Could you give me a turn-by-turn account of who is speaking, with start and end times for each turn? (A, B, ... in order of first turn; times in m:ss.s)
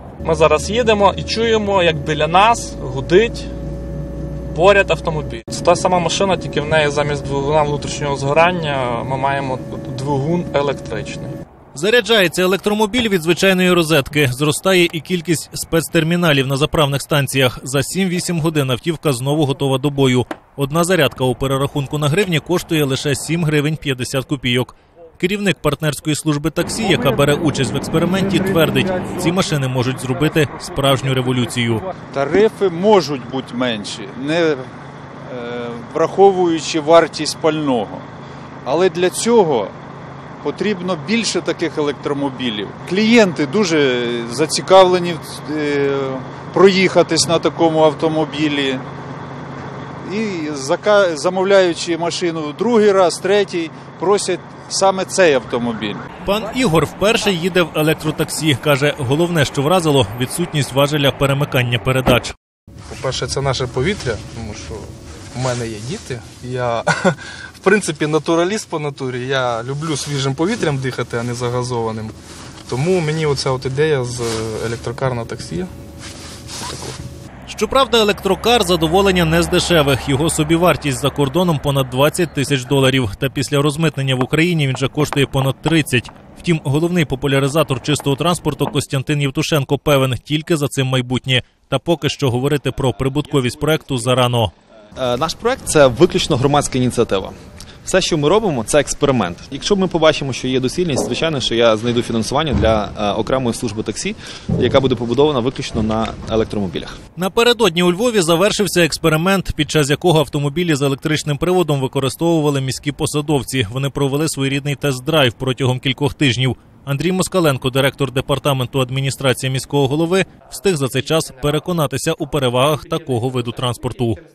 0:00.2-0:03.5 A
0:04.5-0:11.4 A
0:11.7-0:31.9 B
0:32.1-0:34.7 C
0:35.3-0:38.1 C
0:38.6-0:39.7 C
0:40.4-0:48.8 C
0:50.0-0:56.0 C
0:56.2-1:02.3 B
1:02.9-1:12.1 D
1:12.7-1:15.7 D
1:16.6-1:17.0 D
1:17.5-1:34.5 B
1:35.0-1:47.0 E
1:47.2-2:04.2 B